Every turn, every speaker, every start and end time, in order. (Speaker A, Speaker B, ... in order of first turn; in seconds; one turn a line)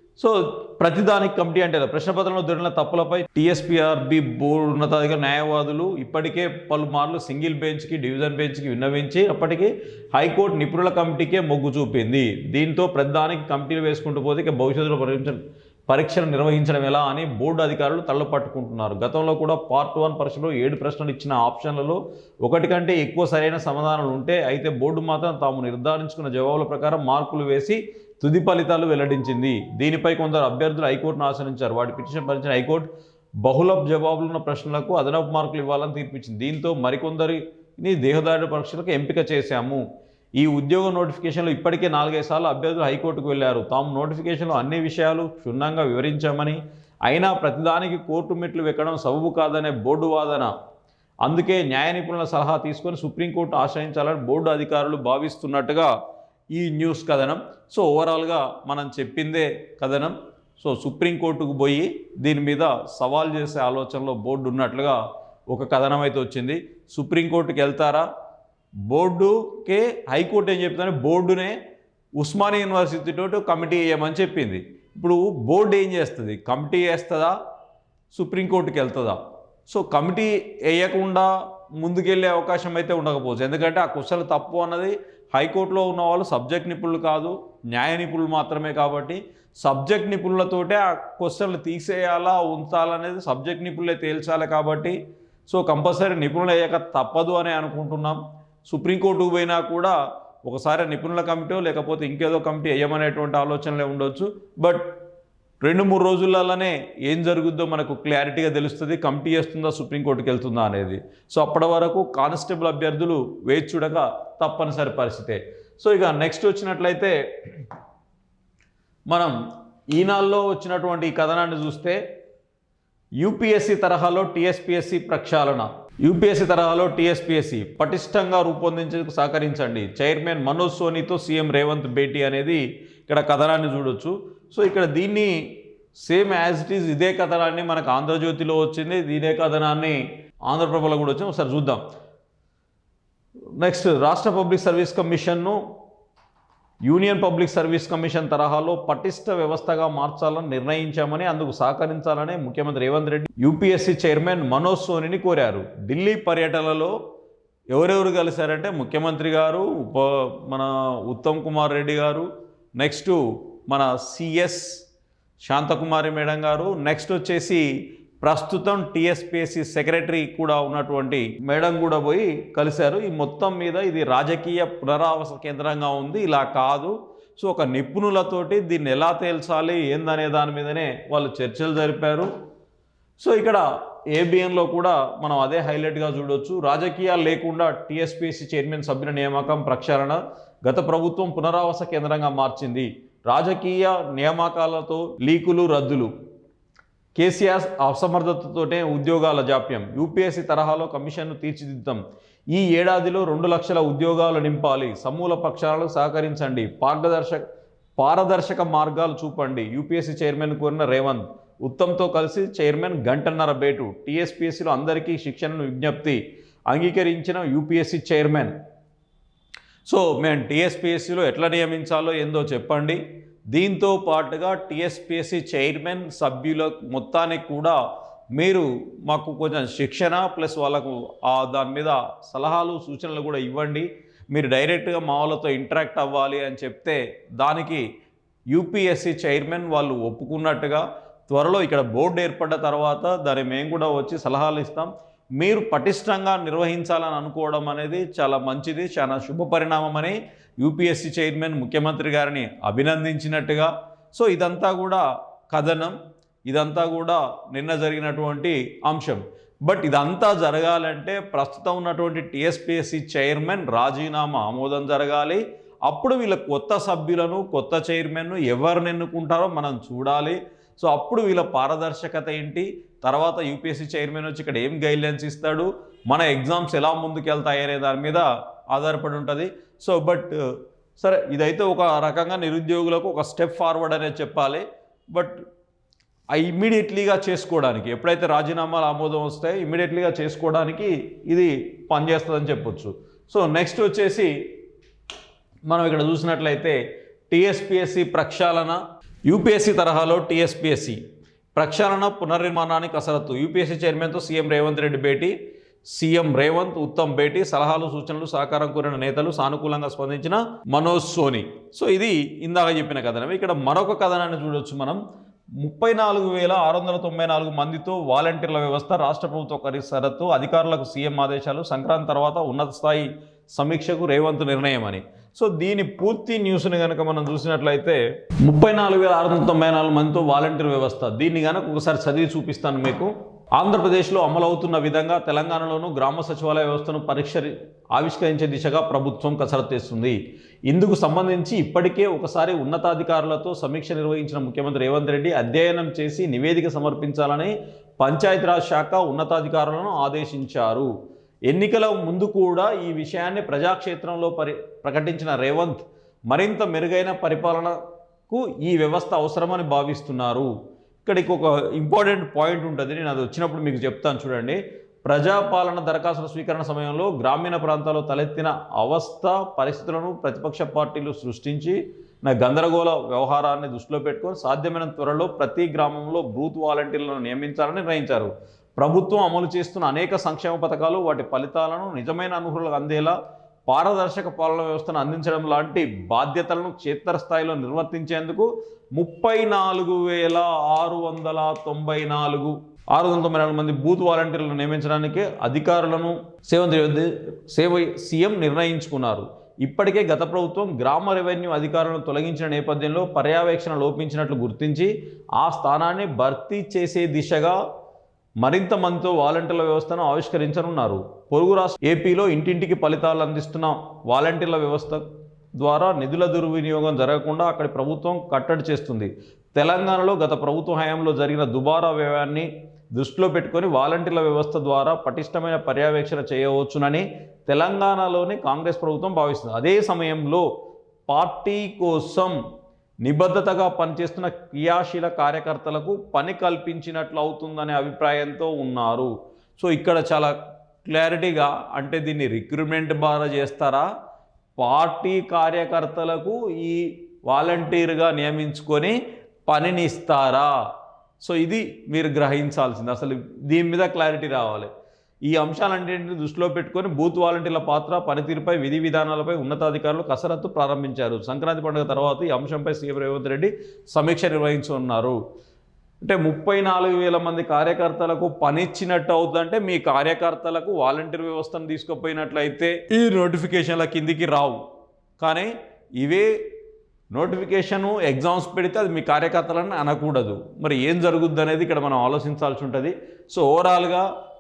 Speaker A: 0.2-32.9
Speaker A: 33.4-39.8
Speaker A: 40.4-50.5
Speaker A: 51.2-55.9
Speaker A: 56.5-65.0
Speaker A: 65.5-68.1
Speaker A: 68.9-71.6
Speaker A: 72.2-77.3
Speaker A: 78.1-95.0
Speaker A: 95.5-104.9
Speaker A: 105.6-117.6
Speaker A: 119.1-119.3
Speaker A: 119.9-122.0
Speaker A: 123.2-135.3
Speaker A: 136.0-140.0
Speaker A: 140.5-141.8
Speaker A: 143.6-145.6
Speaker A: 146.8-156.9
Speaker A: 157.7-162.3
Speaker A: 162.8-164.8
Speaker A: 165.4-167.7
Speaker A: 168.2-182.3
Speaker A: 183.2-196.1
Speaker A: 197.2-202.0
Speaker A: 202.5-207.4
Speaker A: 208.0-216.2
Speaker A: 216.7-218.5
Speaker A: 219.9-223.0
Speaker A: 223.5-227.8
Speaker A: 228.3-237.8
Speaker A: 238.5-256.0
Speaker A: 256.5-280.4
Speaker A: 281.0-285.4
Speaker A: 286.3-294.3
Speaker A: 295.7-296.8
Speaker A: 297.3-301.0
Speaker A: 301.6-305.3
Speaker A: 305.9-315.0
Speaker A: 315.6-340.2
Speaker A: 340.7-350.9
Speaker A: 351.5-357.8
Speaker A: 358.3-360.5
Speaker A: 361.1-383.2
Speaker A: 383.7-407.6
Speaker A: 408.4-415.1
Speaker A: 415.6-430.4
Speaker A: 431.1-432.4
Speaker A: 433.0-440.3
Speaker A: 440.9-443.9
Speaker A: 444.6-449.0
Speaker A: 449.5-450.5
Speaker A: 451.2-454.7
Speaker A: 455.3-465.2
Speaker A: 466.0-474.6
Speaker A: 475.2-476.3
Speaker A: 477.1-484.1